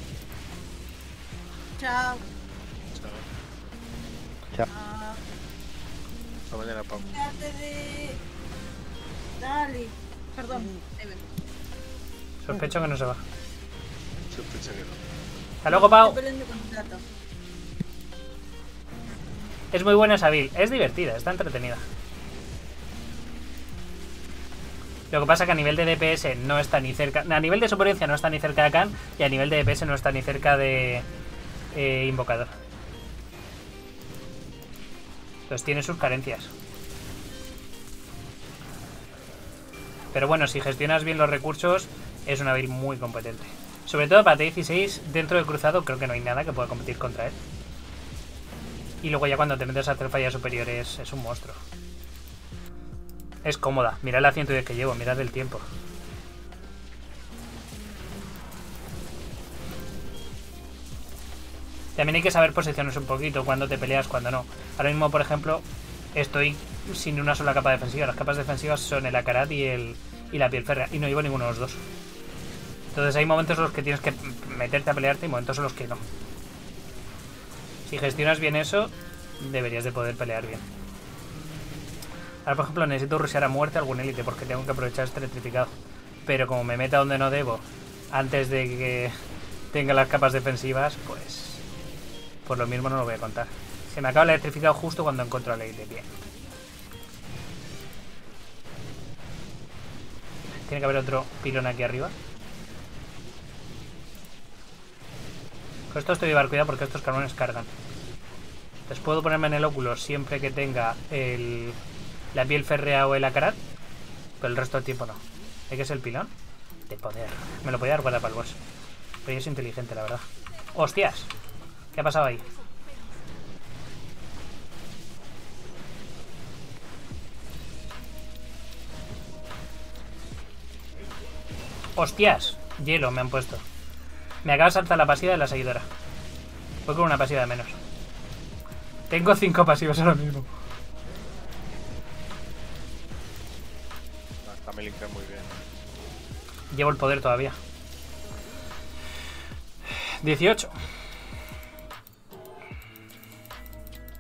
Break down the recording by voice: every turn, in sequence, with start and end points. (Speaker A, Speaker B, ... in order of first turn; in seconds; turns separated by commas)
Speaker A: 1.8-2.2, Speaker B: 2.9-3.2, Speaker A: 4.7-5.2, Speaker B: 6.5-7.2, Speaker A: 7.1-8.2, Speaker A: 9.4-11.2, Speaker C: 12.4-13.2, Speaker B: 14.3-15.1, Speaker C: 15.6-16.2, Speaker A: 15.7-17.0, Speaker C: 19.7-21.9, Speaker C: 25.1-31.1, Speaker C: 31.7-32.5, Speaker C: 35.5-36.5, Speaker C: 40.1-47.4, Speaker C: 49.0-51.6, Speaker C: 53.4-55.6, Speaker C: 62.0-71.8, Speaker C: 72.9-76.0, Speaker C: 77.9-80.6, Speaker C: 82.5-89.1, Speaker C: 89.7-91.6, Speaker C: 92.5-96.1, Speaker C: 100.6-102.2, Speaker C: 105.9-107.7, Speaker C: 108.9-111.8, Speaker C: 112.3-113.6, Speaker C: 114.4-116.3, Speaker C: 116.9-118.6, Speaker C: 119.2-121.3, Speaker C: 121.9-122.5, Speaker C: 132.0-133.6, Speaker C: 134.4-135.9, Speaker C: 136.9-137.8, Speaker C: 139.1-140.5, Speaker B: 144.4-145.6, Speaker C: 146.7-147.6, Speaker C: 149.9-150.7